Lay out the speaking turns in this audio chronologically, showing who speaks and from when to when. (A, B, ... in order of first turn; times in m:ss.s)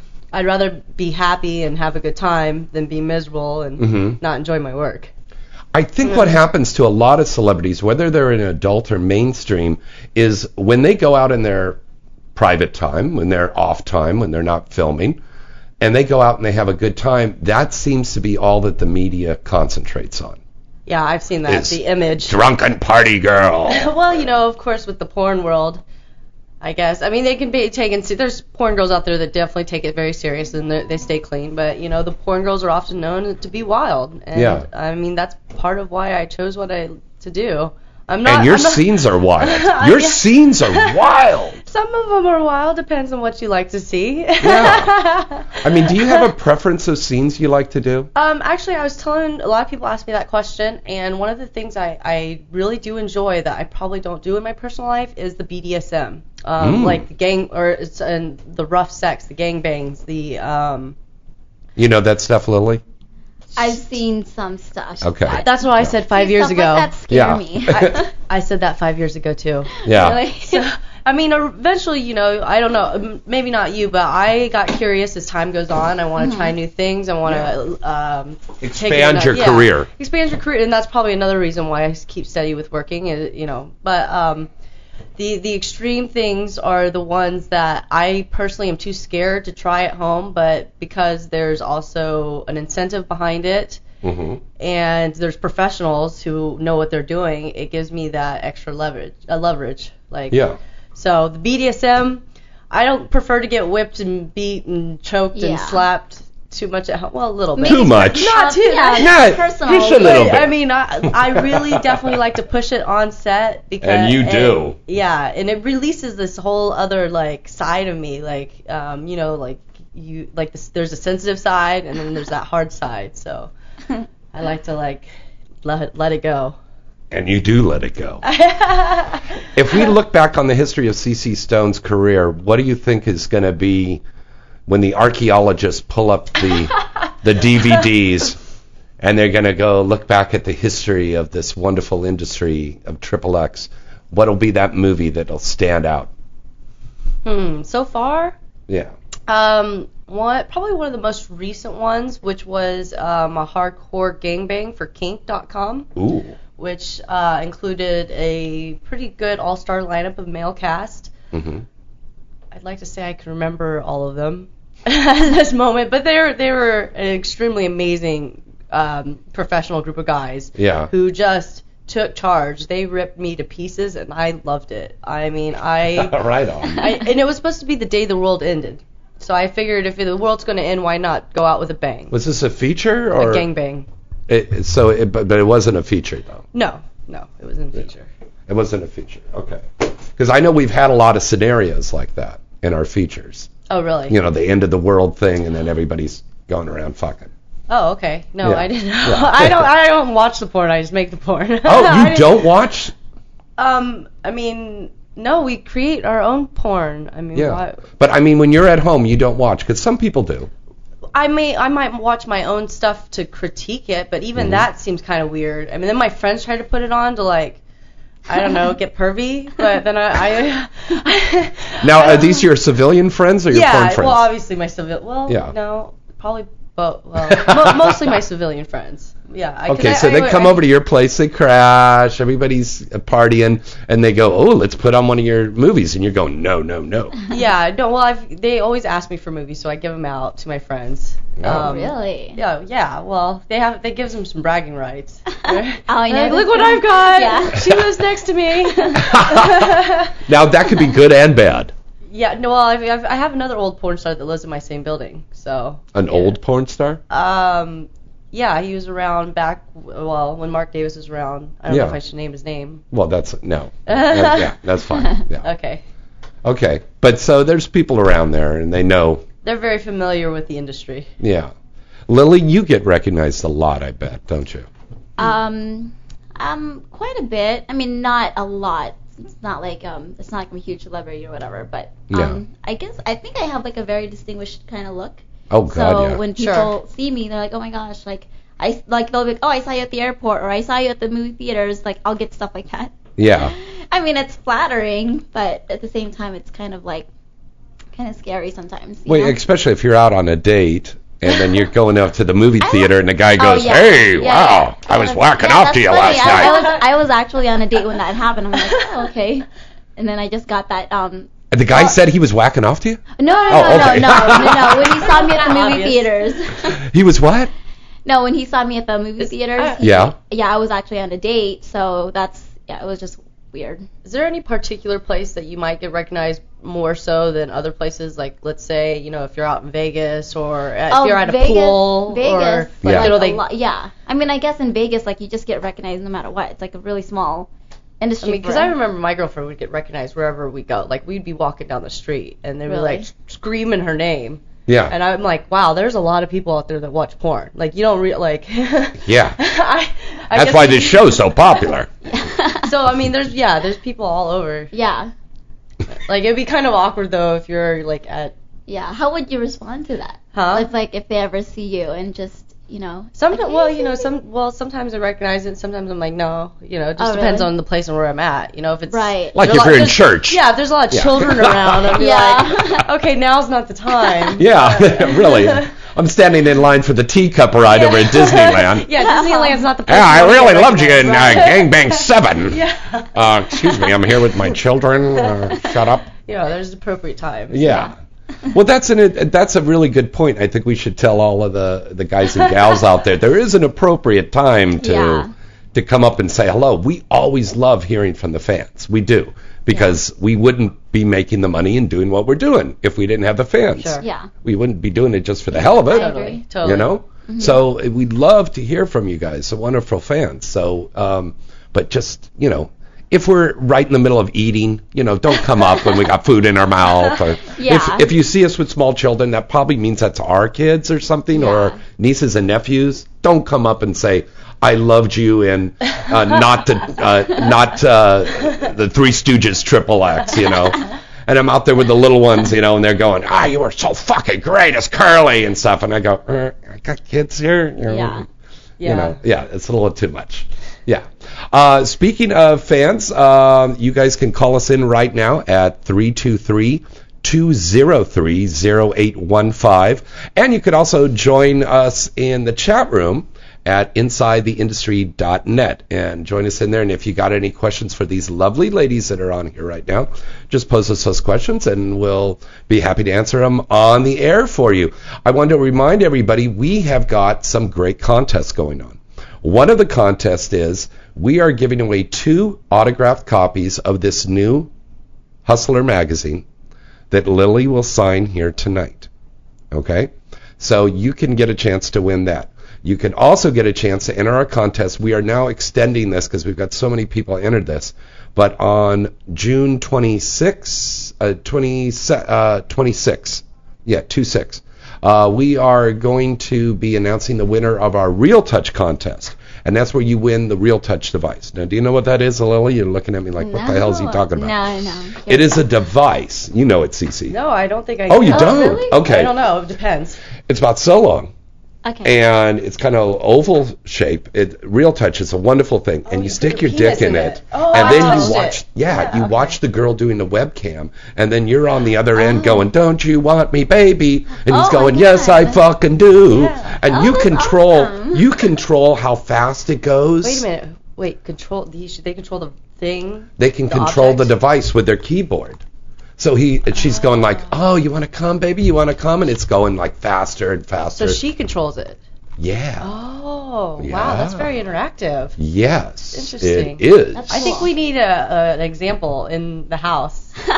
0:00.3-0:05.1 A
0:03.8-0:04.2 B
0:05.7-0:11.8 B
0:06.0-0:06.4 A
0:12.3-0:15.2 B
0:15.8-0:20.4 B
0:20.9-0:22.4 A
0:21.4-0:23.9 B
0:23.7-0:25.8 A
0:26.6-0:41.0 A
0:34.3-0:34.6 B
0:38.2-0:41.6 B
0:41.6-0:46.2 A
0:44.4-0:45.0 B
0:45.6-0:48.1 B
0:48.1-1:00.9 A
0:56.6-0:57.0 B
1:01.8-1:02.8 B
1:03.6-1:08.1 C
1:05.0-1:05.9 B
1:05.4-1:06.9 A
1:07.1-1:07.9 B
1:07.7-1:09.7 A
1:09.8-1:10.6 C
1:09.8-1:10.2 B
1:10.4-1:24.5 A
1:16.2-1:16.5 C
1:18.6-1:19.9 B
1:25.2-1:33.8 A
1:34.0-1:34.4 B
1:34.6-1:40.4 A
1:40.3-1:40.6 B
1:40.9-2:03.5 A
1:45.3-1:45.8 C
1:47.6-1:50.4 C
1:47.6-1:48.4 B
1:48.9-1:50.6 B
1:51.1-1:52.1 B
1:53.8-1:54.8 B
2:04.3-2:05.1 A
2:05.6-2:06.6 A
2:07.1-2:08.2 B
2:08.2-2:09.2 A
2:09.5-2:14.0 B
2:14.7-2:18.4 B
2:19.0-2:26.1 B
2:27.2-2:28.3 A
2:28.7-2:28.9 B
2:29.3-2:35.9 A
2:36.0-2:36.4 B
2:36.6-2:41.1 A
2:41.3-2:41.6 B
2:42.5-2:56.2 A
2:50.6-2:50.9 B
2:55.9-2:56.9 B
2:56.8-3:02.1 A
3:02.1-3:03.4 B
3:03.2-3:03.9 A
3:04.3-3:06.4 B
3:06.5-3:08.1 A
3:08.5-3:13.5 B
3:13.7-3:14.2 A
3:14.1-3:17.3 B
3:17.7-3:22.5 A
3:18.4-3:19.7 B
3:21.6-3:22.9 B
3:23.6-3:27.8 A
3:27.3-3:30.5 B
3:31.1-3:37.6 A
3:34.4-3:34.6 B
3:38.3-3:42.4 A
3:41.8-3:44.3 B
3:43.5-3:50.6 A
3:45.3-3:45.5 B
3:47.2-3:48.2 B
3:49.7-3:57.2 B
3:57.3-4:10.1 A
4:01.4-4:01.7 B
4:01.5-4:02.4 C
4:05.4-4:07.6 C
4:08.8-4:09.0 C
4:09.0-4:09.7 B
4:10.2-4:11.7 B
4:12.1-4:15.9 A
4:15.9-4:17.0 B
4:17.1-4:22.8 A
4:21.7-4:22.0 B
4:22.9-4:25.4 B
4:23.9-4:24.5 A
4:25.4-4:25.8 A
4:26.4-4:29.2 B
4:29.4-4:31.1 A
4:31.2-4:31.5 B
4:32.1-4:34.7 B
4:35.2-4:57.1 C
4:42.1-4:42.4 B
4:45.5-4:46.2 B
4:46.4-4:46.7 A
4:53.2-4:53.5 B
4:57.9-4:59.4 C
4:59.1-5:06.7 B
5:02.6-5:11.3 C
5:06.2-5:06.7 A
5:11.5-5:15.0 B
5:13.2-5:16.8 C
5:13.3-5:16.1 A
5:16.8-5:17.5 B
5:18.0-5:23.8 C
5:19.2-5:19.8 A
5:19.8-5:20.1 B
5:24.0-5:33.4 A
5:30.9-5:37.5 C
5:32.8-5:33.2 B
5:38.0-5:38.7 C
5:38.2-5:51.4 A
5:42.7-5:43.1 C
5:44.7-5:44.9 B
5:49.0-5:49.4 B
5:50.3-5:51.9 B
5:52.0-5:52.7 C
5:52.6-5:54.7 A
5:54.7-5:55.1 C
5:56.0-5:58.3 A
5:58.7-6:04.1 C
6:00.3-6:00.7 A
6:03.2-6:15.7 A
6:07.0-6:07.5 C
6:08.9-6:09.4 C
6:09.3-6:12.0 B
6:12.0-6:12.8 C
6:14.3-6:18.9 B
6:17.7-6:24.3 A
6:19.0-6:19.6 C
6:19.9-6:22.6 B
6:23.1-6:26.1 B
6:25.2-6:27.7 A
6:27.5-6:27.9 B
6:27.6-6:27.9 C
6:28.5-7:18.2 B
6:34.8-6:35.3 C
6:39.7-6:40.0 C
6:43.8-6:44.0 A
6:44.0-6:44.3 C
6:45.7-6:46.9 A
6:45.8-6:46.4 C
6:47.3-6:47.6 C
6:57.5-6:58.1 C
7:01.3-7:01.8 C
7:17.9-7:18.2 C
7:18.8-7:19.2 A
7:18.8-7:54.7 B
7:55.4-7:56.4 B
7:57.1-7:59.1 B
7:59.7-8:24.6 B
8:23.4-8:25.6 C
8:25.2-8:27.4 B
8:27.3-8:30.2 A
8:28.1-8:29.3 B
8:28.3-8:29.0 C
8:30.5-8:31.3 B
8:31.8-8:32.1 C
8:32.0-8:50.4 B
8:36.1-8:39.3 A
8:37.8-8:38.3 C
8:42.2-8:42.7 C
8:44.5-8:45.6 C
8:46.3-8:46.8 A
8:46.9-8:48.2 C
8:50.2-8:54.3 A
8:53.4-8:55.6 B
8:56.2-9:01.2 B
9:00.9-9:02.0 A
9:02.4-9:02.9 B
9:02.8-9:05.4 A
9:03.8-9:04.5 B
9:05.4-9:07.4 B
9:06.1-9:10.4 A
9:07.1-9:07.7 C